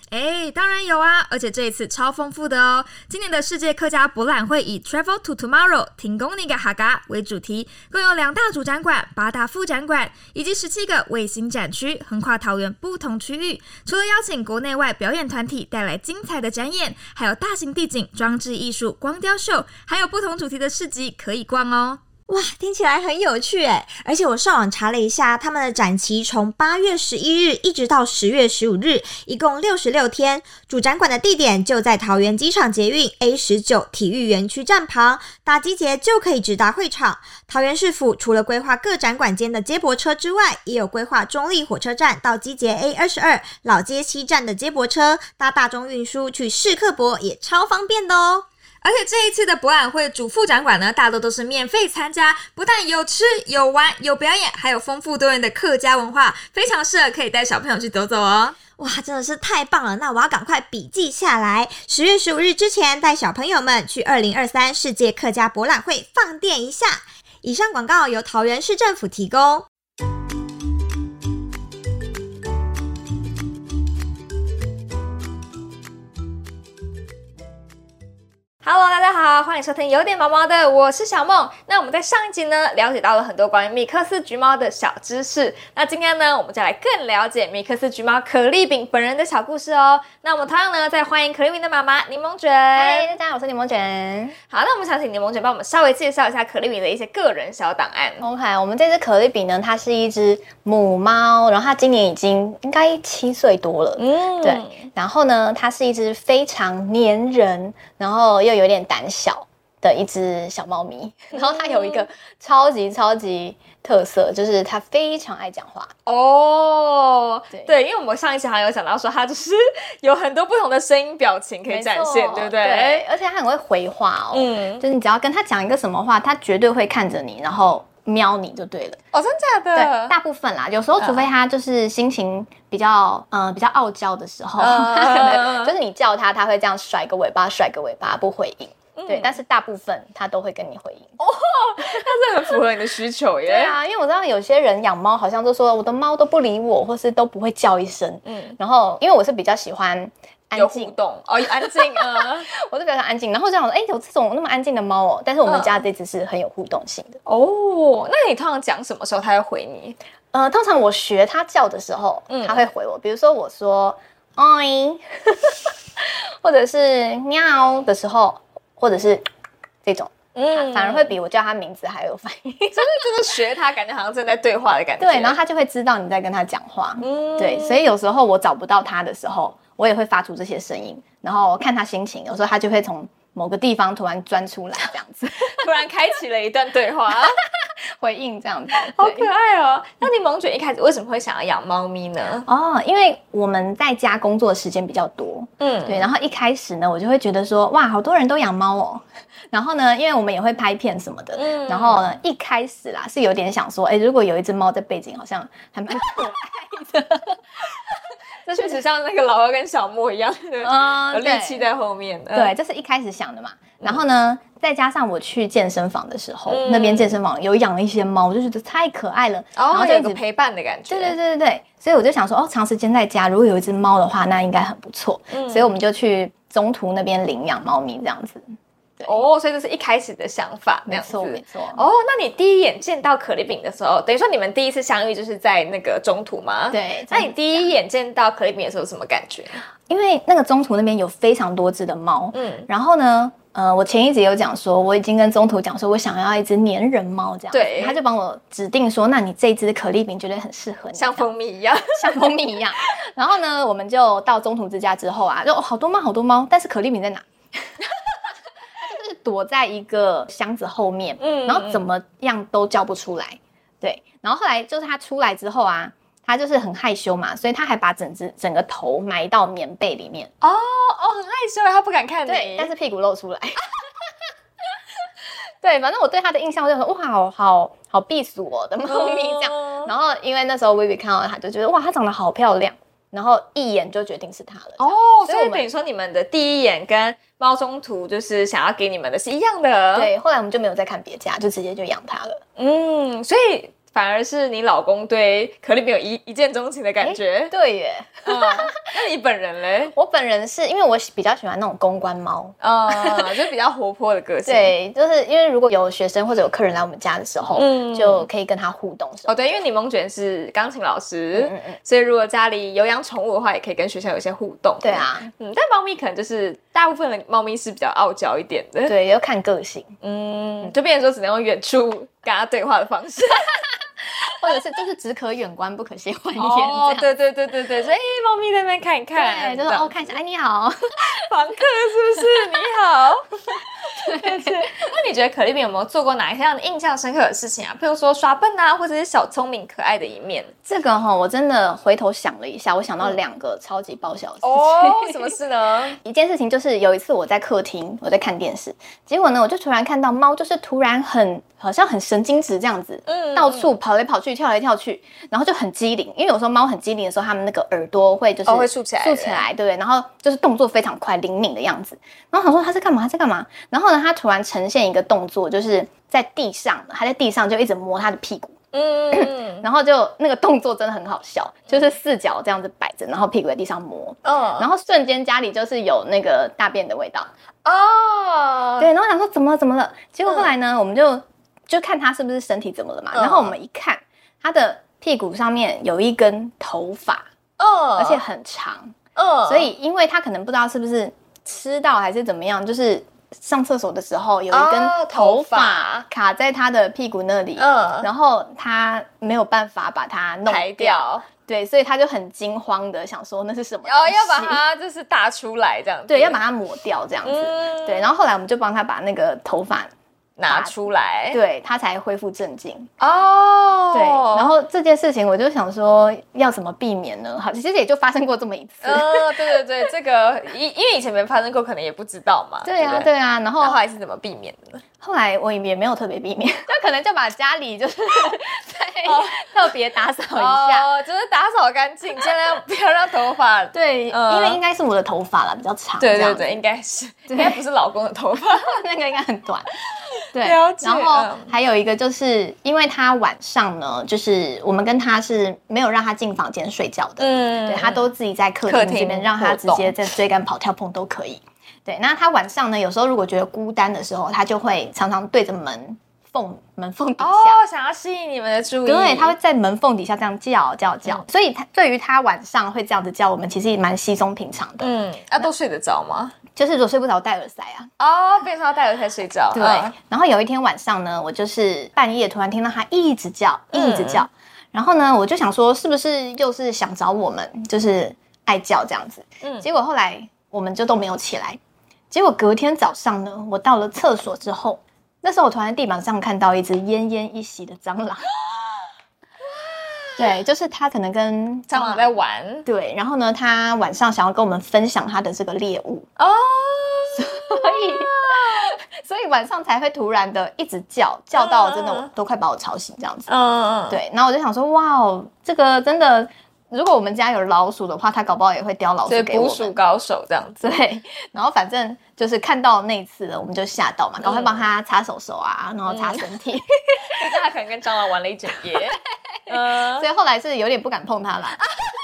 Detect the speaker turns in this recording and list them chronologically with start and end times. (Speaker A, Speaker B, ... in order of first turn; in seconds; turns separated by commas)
Speaker A: 0.1-22.0, Speaker B: 22.3-48.5, Speaker A: 48.8-58.6, Speaker B: 58.7-69.7, Speaker A: 78.6-93.1, Speaker C: 92.7-94.3, Speaker A: 94.5-98.2, Speaker C: 98.2-115.9, Speaker A: 104.0-104.8, Speaker A: 111.3-112.0, Speaker A: 116.1-123.0, Speaker C: 117.5-117.8, Speaker C: 121.7-129.0, Speaker A: 124.3-124.8, Speaker A: 129.1-130.2, Speaker C: 129.7-141.2, Speaker A: 131.0-131.3, Speaker A: 134.6-135.8, Speaker A: 139.0-139.4, Speaker A: 141.2-143.8, Speaker C: 143.4-157.2, Speaker A: 148.2-148.6, Speaker A: 150.5-152.5, Speaker A: 155.4-155.8, Speaker A: 157.2-160.0, Speaker C: 160.3-169.2, Speaker A: 162.3-162.6, Speaker C: 169.8-173.0, Speaker A: 170.3-171.1, Speaker A: 172.7-175.4, Speaker C: 175.0-185.9, Speaker A: 177.0-177.9, Speaker A: 185.5-187.3, Speaker C: 187.2-189.3, Speaker A: 188.7-192.4, Speaker C: 192.4-207.4, Speaker A: 195.6-196.1, Speaker A: 201.3-202.0, Speaker A: 208.4-212.5, Speaker C: 210.6-211.7, Speaker C: 212.3-220.2, Speaker A: 216.5-217.2, Speaker A: 219.6-221.2, Speaker C: 220.9-228.4, Speaker A: 225.3-225.7, Speaker A: 229.0-239.6, Speaker C: 230.8-231.8, Speaker C: 236.7-237.7, Speaker C: 239.9-251.3, Speaker A: 242.3-242.7, Speaker A: 247.5-248.0, Speaker A: 250.9-252.3, Speaker C: 251.9-257.8, Speaker C: 258.8-270.3, Speaker A: 261.2-261.8, Speaker A: 270.4-272.7, Speaker C: 272.2-273.8, Speaker C: 275.6-285.7, Speaker A: 278.8-279.9, Speaker A: 284.8-290.1, Speaker C: 289.9-292.4, Speaker A: 292.6-297.5, Speaker C: 297.0-298.7, Speaker A: 298.2-299.9, Speaker C: 299.9-303.3, Speaker A: 302.6-304.7, Speaker C: 304.4-309.4, Speaker A: 307.5-308.3, Speaker A: 309.3-318.9, Speaker C: 311.3-311.8, Speaker C: 314.8-315.3, Speaker C: 318.8-319.9, Speaker A: 320.0-323.6, Speaker C: 324.4-327.1, Speaker A: 326.4-330.1, Speaker C: 329.1-331.2, Speaker A: 331.2-340.5, Speaker C: 333.9-334.8, Speaker C: 340.6-345.4, Speaker A: 344.4-345.9, Speaker C: 346.0-368.6, Speaker A: 353.1-353.7, Speaker A: 358.4-359.4, Speaker A: 368.7-369.6, Speaker C: 369.1-377.3, Speaker A: 374.2-374.7, Speaker A: 377.6-378.9, Speaker C: 378.8-387.3, Speaker A: 380.2-380.5, Speaker A: 383.1-383.5, Speaker A: 387.6-388.2, Speaker C: 388.0-388.9, Speaker A: 389.1-389.7, Speaker C: 389.5-404.6, Speaker A: 394.5-396.1, Speaker A: 397.6-398.1, Speaker A: 400.5-401.2, Speaker A: 403.8-406.4, Speaker C: 406.1-409.9, Speaker A: 407.2-408.1, Speaker A: 410.4-411.4, Speaker C: 410.5-412.9, Speaker A: 413.0-414.5, Speaker C: 413.9-419.5, Speaker A: 418.8-424.8, Speaker C: 422.6-423.8, Speaker C: 425.0-430.9, Speaker A: 429.1-429.5, Speaker A: 430.3-434.6, Speaker C: 433.7-436.6, Speaker A: 436.0-438.7, Speaker C: 437.3-437.6, Speaker C: 438.4-439.6, Speaker C: 440.3-457.6, Speaker A: 440.4-441.5, Speaker A: 447.2-448.0, Speaker A: 448.6-449.9, Speaker A: 457.2-459.4, Speaker C: 458.8-465.5, Speaker A: 464.8-466.4, Speaker C: 466.4-467.9, Speaker A: 468.0-469.9, Speaker C: 469.5-481.6, Speaker A: 473.7-474.3, Speaker C: 482.1-488.3, Speaker A: 489.6-490.3, Speaker C: 490.2-496.1, Speaker A: 491.7-492.6, Speaker A: 496.2-498.7, Speaker C: 497.1-503.3, Speaker A: 501.3-502.1, Speaker A: 503.3-504.0, Speaker C: 503.9-509.8, Speaker A: 509.1-510.7, Speaker C: 510.6-517.3, Speaker A: 514.2-514.6, Speaker A: 515.9-516.2, Speaker A: 517.1-520.1, Speaker C: 518.7-521.6